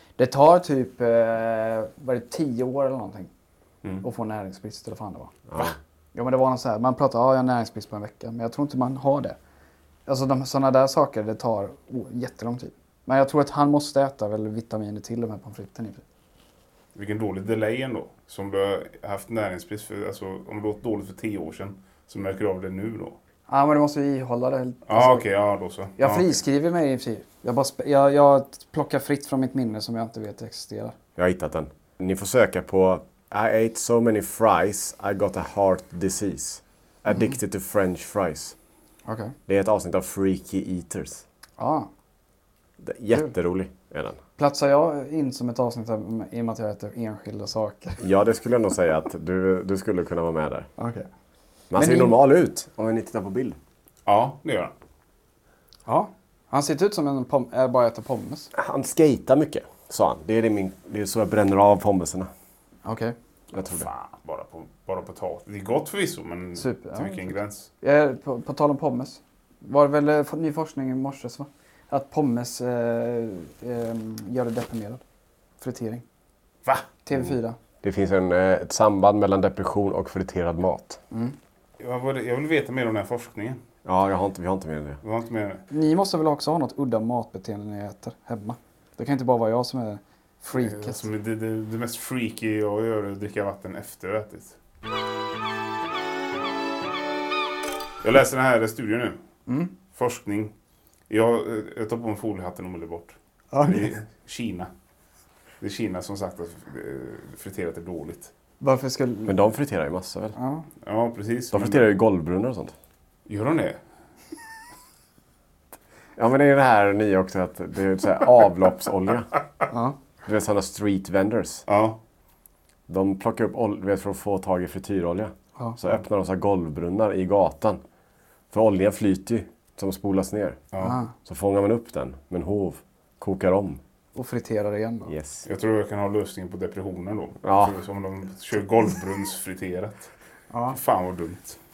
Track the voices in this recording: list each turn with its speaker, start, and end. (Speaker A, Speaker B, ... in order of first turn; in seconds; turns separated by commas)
Speaker A: 0.2-3.3, Speaker A: 4.0-5.4, Speaker B: 5.5-5.8, Speaker A: 6.1-9.4, Speaker A: 10.1-16.0, Speaker C: 16.9-23.2, Speaker A: 23.5-25.2, Speaker C: 24.9-26.3, Speaker A: 26.0-31.0, Speaker B: 31.2-38.5, Speaker A: 39.1-39.3, Speaker B: 39.5-41.2, Speaker A: 41.6-41.9, Speaker B: 42.8-44.2, Speaker A: 44.4-48.0, Speaker B: 48.0-50.7, Speaker A: 50.8-51.1, Speaker B: 51.7-53.6, Speaker A: 51.8-52.2, Speaker C: 54.1-54.7, Speaker A: 55.9-58.5, Speaker B: 58.5-62.3, Speaker A: 62.9-63.1, Speaker B: 63.5-63.9, Speaker C: 63.7-67.7, Speaker A: 66.6-75.0, Speaker A: 75.6-76.0, Speaker A: 77.0-77.6, Speaker B: 77.8-81.0, Speaker A: 81.1-81.4, Speaker C: 81.8-83.6, Speaker B: 83.8-85.0, Speaker C: 85.0-85.7, Speaker A: 85.7-91.0, Speaker C: 90.6-94.6, Speaker C: 98.0-99.2, Speaker A: 99.5-99.7, Speaker C: 99.9-100.5, Speaker C: 101.1-104.7, Speaker A: 103.5-104.0, Speaker C: 105.6-108.3, Speaker A: 108.6-109.4, Speaker B: 109.3-110.4, Speaker A: 110.4-110.7, Speaker C: 110.8-111.9, Speaker B: 111.5-112.7, Speaker C: 113.3-113.8, Speaker B: 116.2-119.3, Speaker A: 119.7-120.0, Speaker B: 120.2-121.7, Speaker C: 121.7-122.0, Speaker B: 122.9-127.8, Speaker B: 128.5-130.6, Speaker A: 130.8-131.1, Speaker B: 131.2-133.8, Speaker A: 134.2-135.1, Speaker B: 135.1-135.5, Speaker C: 135.5-140.1, Speaker B: 137.4-137.8, Speaker A: 140.5-140.8, Speaker C: 140.7-141.6